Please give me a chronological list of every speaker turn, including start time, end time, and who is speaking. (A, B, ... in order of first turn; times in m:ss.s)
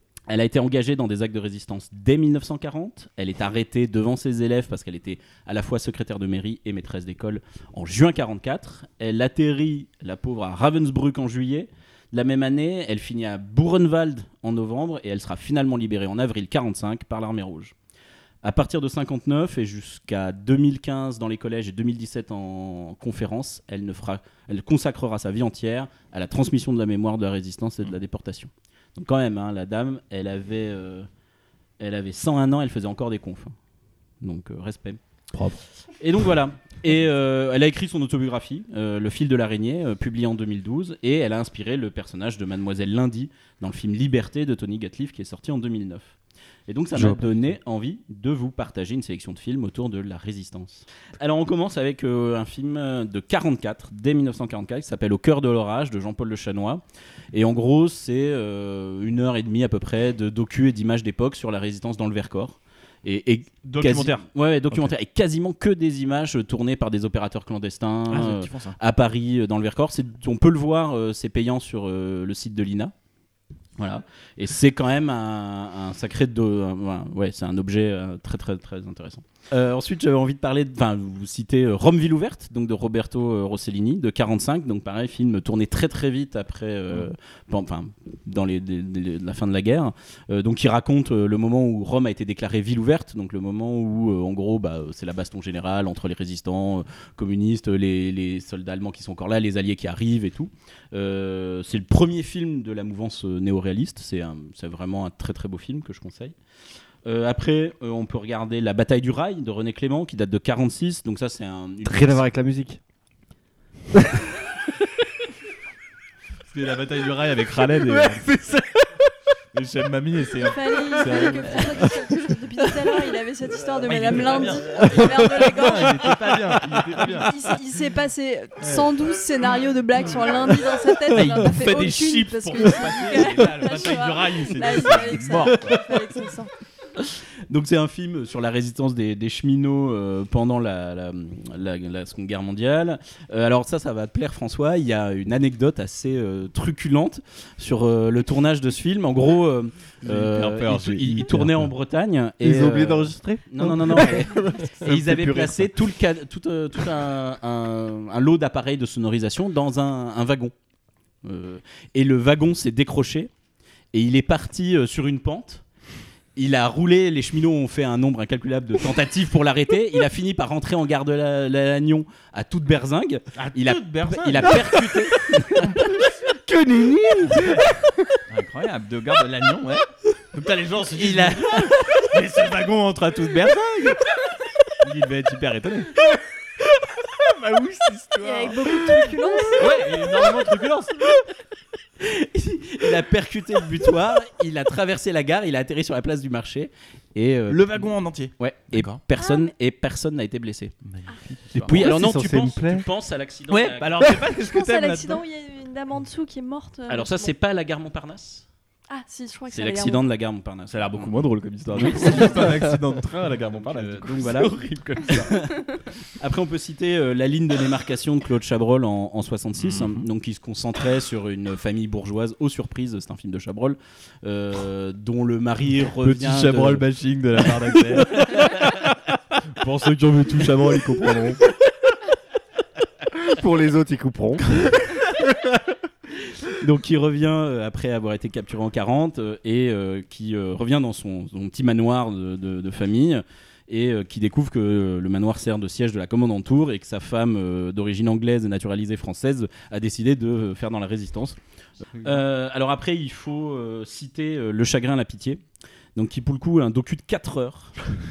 0:00.3-0:17.7 A
0:18.4-0:31.1 A
0:31.8-0:33.5 A
0:34.2-0:35.0 A
0:36.0-0:46.1 A
0:46.7-1:12.9 A
0:46.9-0:47.5 B
1:03.6-1:04.9 B
1:08.1-1:08.8 B
1:13.8-1:46.3 A
1:47.0-1:52.3 A
1:51.8-1:52.8 C
1:56.5-1:58.3 B
1:57.8-1:58.9 C
1:59.5-2:01.9 B
2:00.4-2:06.1 D
2:03.8-2:07.3 B
2:06.7-2:07.0 C
2:07.2-2:16.5 D
2:08.6-2:08.9 B
2:11.1-2:15.8 B
2:17.5-2:40.5 A
2:30.0-2:31.7 B
2:32.4-2:35.7 C
2:41.2-2:43.3 A
2:43.9-2:45.6 A
2:46.4-2:55.6 A
2:53.3-2:54.8 B
2:56.3-2:58.0 C
2:57.3-2:57.6 B
2:58.3-3:04.0 B
3:00.9-3:02.0 A
3:04.8-3:06.0 B
3:07.4-3:08.6 B
3:08.2-3:10.0 D
3:09.6-3:11.0 B
3:12.0-3:20.7 A
3:17.5-3:19.0 B
3:19.2-3:19.5 D
3:20.8-3:22.0 B
3:21.5-3:22.9 C
3:21.7-3:24.1 A
3:23.5-3:25.2 B
3:24.4-3:27.3 D
3:26.9-3:28.4 A
3:28.9-3:30.0 D
3:29.5-3:32.6 A
3:30.7-3:35.3 B
3:33.5-3:35.6 A
3:36.2-3:46.8 A
3:39.6-3:40.0 B
3:46.0-3:48.8 B
3:49.6-3:51.4 B
3:50.7-3:51.3 C
3:53.2-3:55.1 C
3:56.6-4:11.4 A
4:12.0-4:15.4 A
4:16.0-4:17.7 A